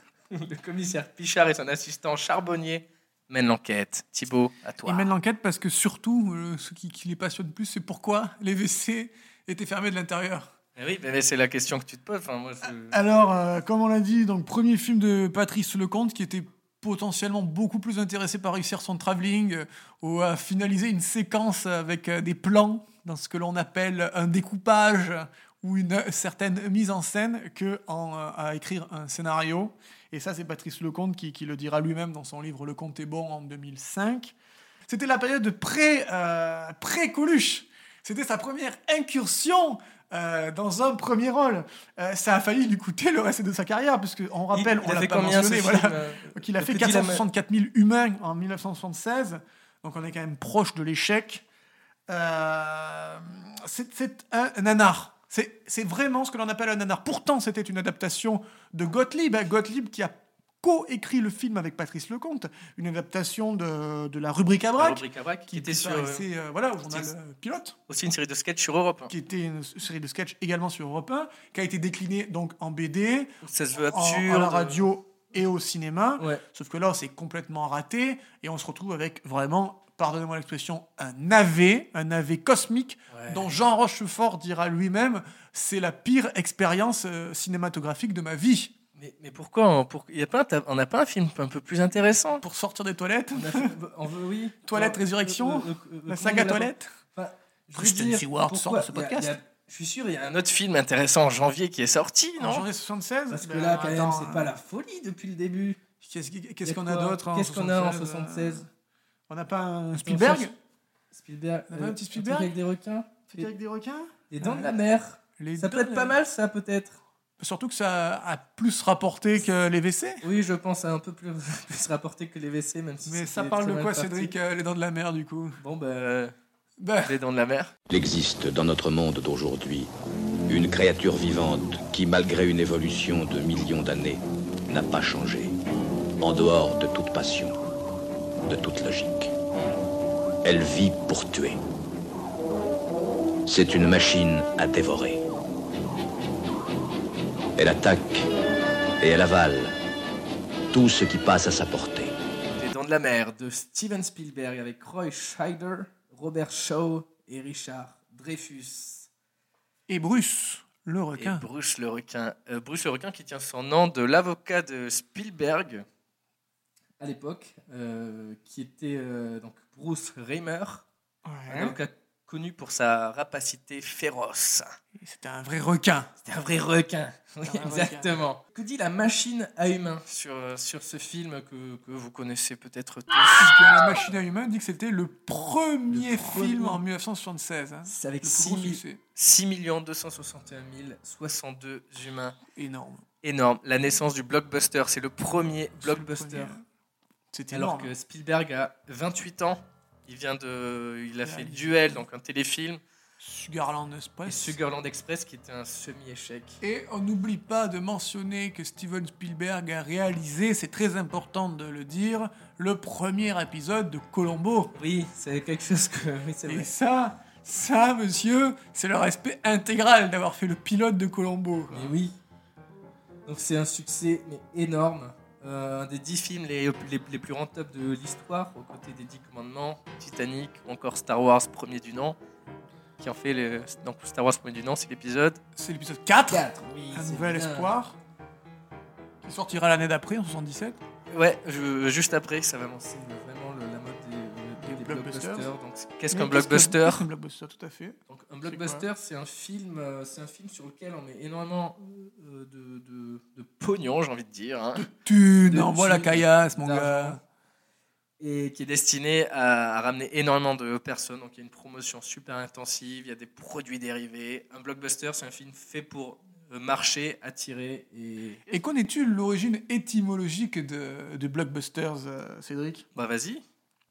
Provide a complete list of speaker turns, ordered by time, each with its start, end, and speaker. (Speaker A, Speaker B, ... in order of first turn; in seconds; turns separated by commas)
Speaker A: 0.3-5.1, Speaker B: 4.8-10.5, Speaker A: 10.8-13.0, Speaker B: 12.6-34.3, Speaker B: 34.9-51.4, Speaker A: 44.5-47.2, Speaker B: 52.1-67.8, Speaker A: 64.8-66.3, Speaker A: 67.9-69.1, Speaker B: 69.1-88.7, Speaker A: 73.4-74.8, Speaker A: 83.1-83.5, Speaker A: 89.0-92.4, Speaker B: 92.4-93.7, Speaker A: 93.3-102.7, Speaker B: 94.6-96.9, Speaker B: 97.7-99.4, Speaker B: 102.4-104.5, Speaker A: 103.3-105.8, Speaker B: 106.0-108.7, Speaker A: 106.6-108.7, Speaker B: 109.3-110.5, Speaker A: 110.0-110.5, Speaker A: 111.1-113.5, Speaker B: 111.7-112.5, Speaker B: 113.3-114.7, Speaker A: 114.3-117.0, Speaker B: 115.4-116.2, Speaker B: 117.4-120.2, Speaker A: 120.2-124.3, Speaker B: 123.0-125.6, Speaker A: 125.6-126.3, Speaker B: 126.8-127.2, Speaker A: 127.0-127.7, Speaker C: 127.9-129.9, Speaker C: 130.5-135.5, Speaker C: 136.2-137.6, Speaker C: 138.4-139.3, Speaker C: 140.4-141.6, Speaker C: 143.4-145.2, Speaker C: 147.6-148.3, Speaker C: 149.0-149.7, Speaker C: 150.7-152.1, Speaker A: 152.5-159.1, Speaker B: 159.9-161.4, Speaker A: 161.1-165.8, Speaker A: 167.0-170.8, Speaker B: 171.2-171.8, Speaker A: 171.5-174.7, Speaker B: 175.0-176.1, Speaker A: 176.2-183.6, Speaker B: 177.4-178.2, Speaker B: 183.4-189.0, Speaker A: 185.9-186.8, Speaker A: 187.8-192.4, Speaker B: 192.5-193.0, Speaker A: 193.2-196.5, Speaker B: 195.8-196.6, Speaker B: 197.3-197.9, Speaker A: 197.5-202.8, Speaker B: 201.2-202.0, Speaker B: 203.2-204.6, Speaker A: 204.2-206.6, Speaker B: 206.6-214.7, Speaker A: 214.7-216.7, Speaker B: 216.4-221.9, Speaker A: 221.7-222.2, Speaker A: 223.2-232.2, Speaker A: 233.0-235.4, Speaker B: 235.6-238.0, Speaker A: 236.3-237.7, Speaker B: 239.2-240.8, Speaker A: 241.1-247.1, Speaker B: 244.6-245.5, Speaker B: 246.1-248.8, Speaker A: 248.1-254.9, Speaker B: 254.7-257.2, Speaker A: 255.5-257.2, Speaker A: 258.2-268.4, Speaker B: 268.5-272.8, Speaker A: 272.9-273.4